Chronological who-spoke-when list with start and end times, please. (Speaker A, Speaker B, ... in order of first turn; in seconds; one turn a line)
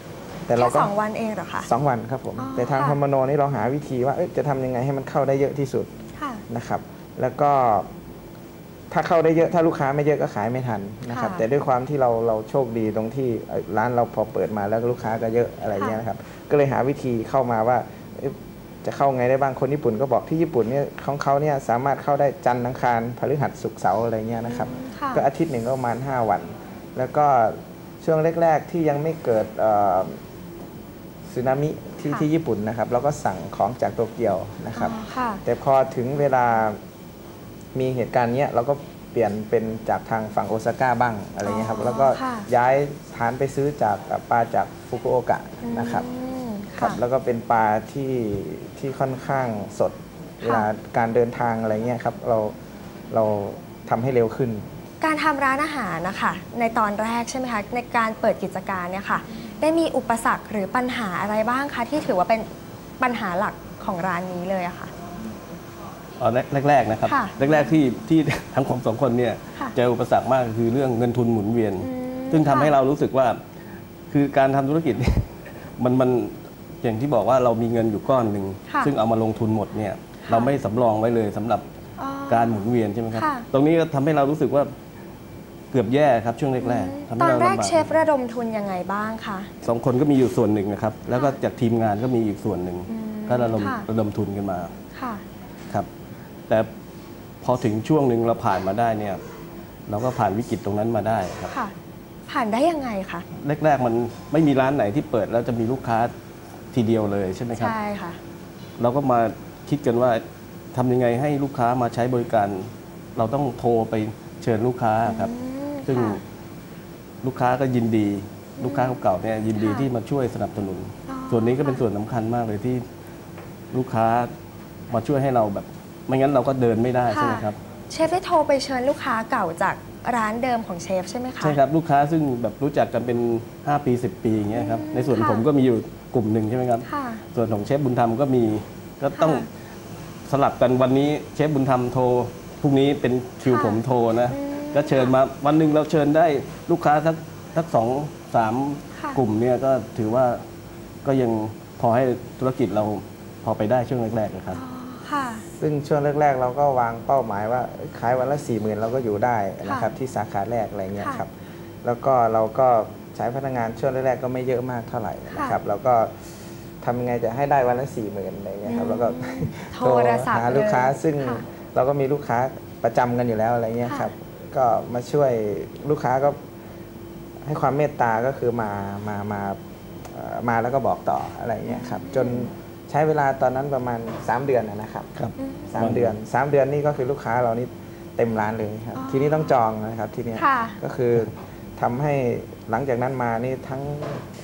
Speaker A: 0.5-0.9
Speaker B: 0.6-1.7
Speaker A: 1.6-5.9
Speaker B: 2.4-3.0
Speaker B: 6.2-6.4
Speaker A: 6.5-7.9
Speaker A: 8.9-30.2
Speaker B: 11.1-11.4
Speaker B: 24.4-25.2
Speaker A: 31.3-36.8
Speaker B: 34.7-35.4
Speaker A: 37.7-46.0
Speaker B: 41.4-42.5
Speaker B: 45.6-47.0
Speaker A: 46.8-52.5
Speaker B: 50.4-50.7
Speaker A: 53.1-54.7
Speaker B: 55.0-62.5
Speaker B: 63.0-64.9
Speaker C: 66.2-73.4
Speaker B: 67.0-67.5
Speaker B: 71.8-72.8
Speaker C: 74.1-81.6
Speaker B: 78.7-78.9
Speaker B: 80.3-80.5
Speaker B: 82.0-83.5
Speaker C: 82.3-84.7
Speaker C: 85.7-88.0
Speaker B: 86.6-89.5
Speaker C: 89.6-94.7
Speaker B: 92.9-93.8
Speaker B: 94.9-95.2
Speaker C: 97.4-99.2
Speaker C: 99.9-101.5
Speaker B: 102.3-103.2
Speaker C: 103.3-106.1
Speaker C: 106.7-107.7
Speaker B: 107.6-108.2
Speaker C: 108.8-115.3
Speaker B: 115.0-116.2
Speaker C: 115.9-116.2
Speaker C: 117.2-122.8
Speaker B: 118.6-119.9
Speaker B: 121.1-121.8
Speaker C: 123.7-124.3
Speaker C: 124.9-127.6
Speaker B: 127.1-131.6
Speaker C: 131.4-139.5
Speaker B: 134.5-135.4
Speaker B: 136.8-137.2
Speaker B: 139.2-139.5
Speaker C: 140.3-150.4
Speaker B: 143.5-145.1
Speaker C: 151.0-154.6
Speaker B: 154.5-155.4
Speaker A: 155.5-161.3
Speaker B: 159.6-159.9
Speaker A: 161.8-166.1
Speaker B: 165.3-165.6
Speaker A: 166.8-176.4
Speaker B: 168.7-171.4
Speaker B: 173.8-174.1
Speaker A: 177.4-194.2
Speaker B: 181.7-182.5
Speaker C: 185.2-186.1
Speaker B: 185.4-185.7
Speaker B: 188.9-189.6
Speaker B: 190.3-190.8